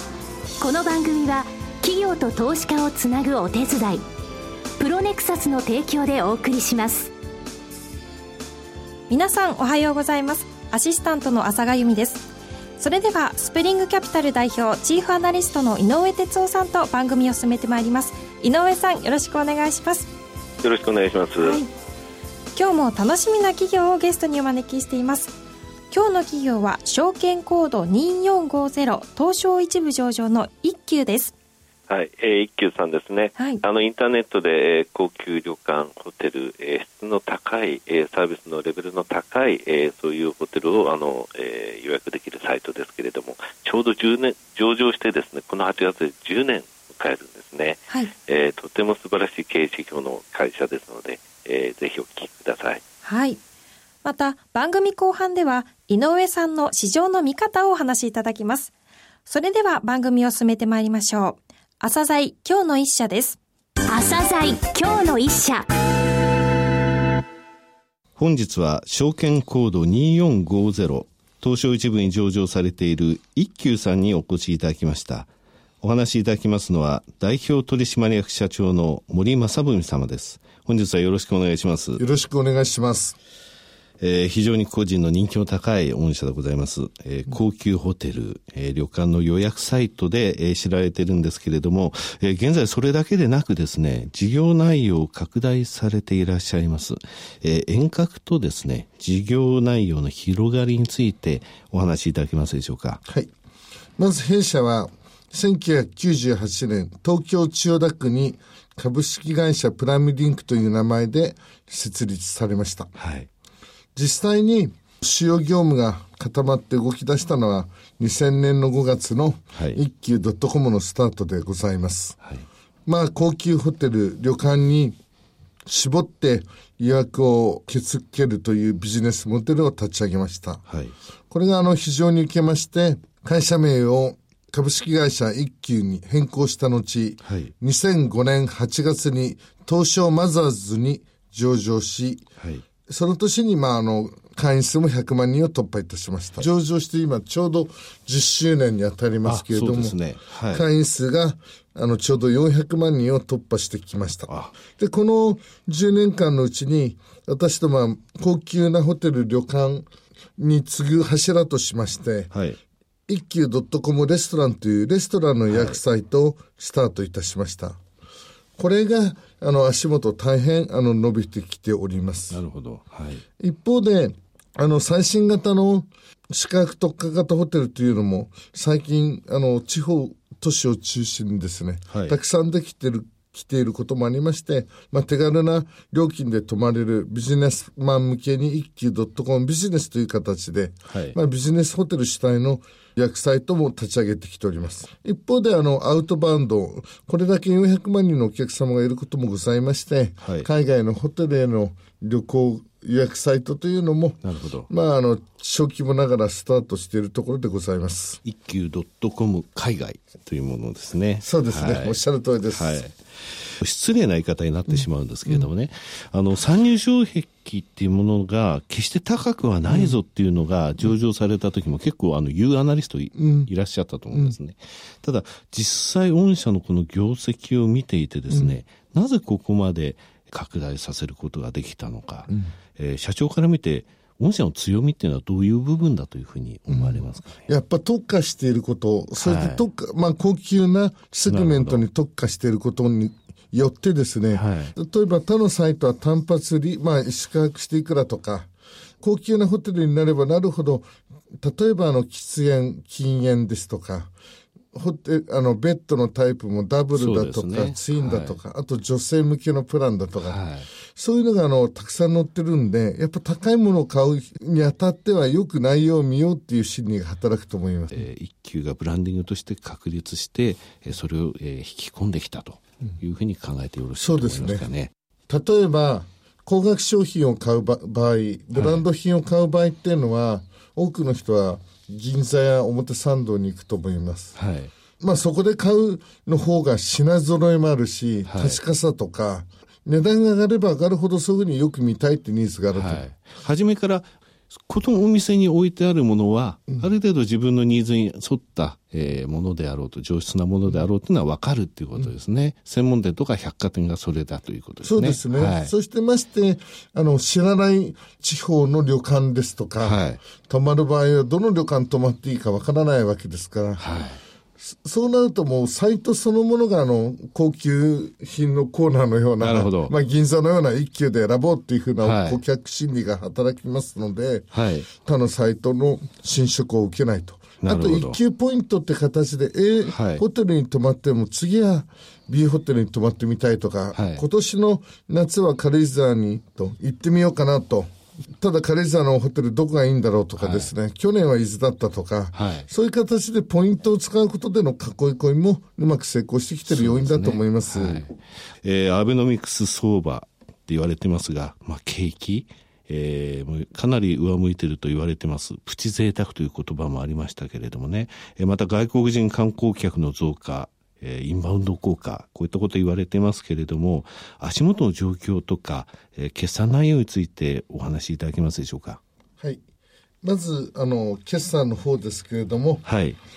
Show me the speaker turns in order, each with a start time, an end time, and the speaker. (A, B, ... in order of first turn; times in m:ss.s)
0:00.6-0:04.0 A
0:04.8-0:07.1 A
0:09.1-0:12.3 B
0:12.8-0:20.1 B
0:20.6-0:21.6 C
0:21.4-0:21.7 B
0:22.6-0:25.4 B
0:25.9-0:31.3 B
0:31.9-0:52.8 C
0:33.4-0:33.6 B
0:53.0-0:53.4 B
0:54.0-0:58.7 B
0:59.3-1:03.4 B
1:03.9-1:05.7 A
1:08.2-1:15.3 D
1:15.8-1:22.0 D
1:22.0-1:23.2 E
1:24.0-1:43.0 D
1:43.1-1:43.3 E
1:44.0-1:52.9 E
1:53.0-1:53.3 D
1:54.0-2:02.2 E
2:02.9-2:05.0 E
2:05.7-2:10.6 E
2:10.7-2:11.0 D
2:11.3-2:22.2 E
2:17.2-2:17.5 D
2:22.9-2:30.0 E
2:29.2-2:30.7 D
2:30.5-2:42.3 E
2:34.3-2:34.6 D
2:42.3-2:42.6 D
2:43.1-2:47.8 E
2:45.5-2:45.8 D
2:48.6-2:52.4 E
2:52.3-2:53.2 D
2:53.4-3:28.2 E
3:01.9-3:02.2 D
3:10.9-3:11.2 D
3:20.2-3:20.5 D
3:24.2-3:24.7 D
3:28.2-3:57.5 D
3:31.2-3:32.8 E
3:34.7-3:35.5 E
3:39.7-3:40.0 E
3:43.1-3:43.5 E
3:48.3-3:48.6 E
3:52.3-3:52.5 E
3:56.7-4:08.5 E
3:59.2-3:59.6 D
4:01.3-4:01.8 D
4:04.3-4:04.7 D
4:09.0-4:10.9 E
4:11.4-4:14.1 E
4:14.7-4:20.4 E
4:16.9-4:18.4 D
4:20.2-4:20.7 D
4:20.9-4:28.0 E
4:27.9-4:34.9 D
4:34.0-4:34.7 E
4:35.3-4:44.4 E
4:38.6-4:38.8 D
4:44.4-4:44.7 D
4:45.0-4:53.0 E
4:48.3-4:48.6 D
4:52.7-5:05.7 D
5:04.8-5:13.8 E
5:09.8-5:10.2 D
5:13.8-5:14.2 D
5:14.6-5:48.1 E
5:19.4-5:19.9 D
5:22.0-5:22.4 D
5:24.5-5:24.9 D
5:27.6-5:28.2 D
5:29.8-5:30.2 D
5:33.9-5:34.2 D
5:40.4-5:40.7 D
5:42.4-5:42.7 D
5:46.7-6:09.0 D
6:10.2-6:12.8 E
6:12.8-6:13.2 D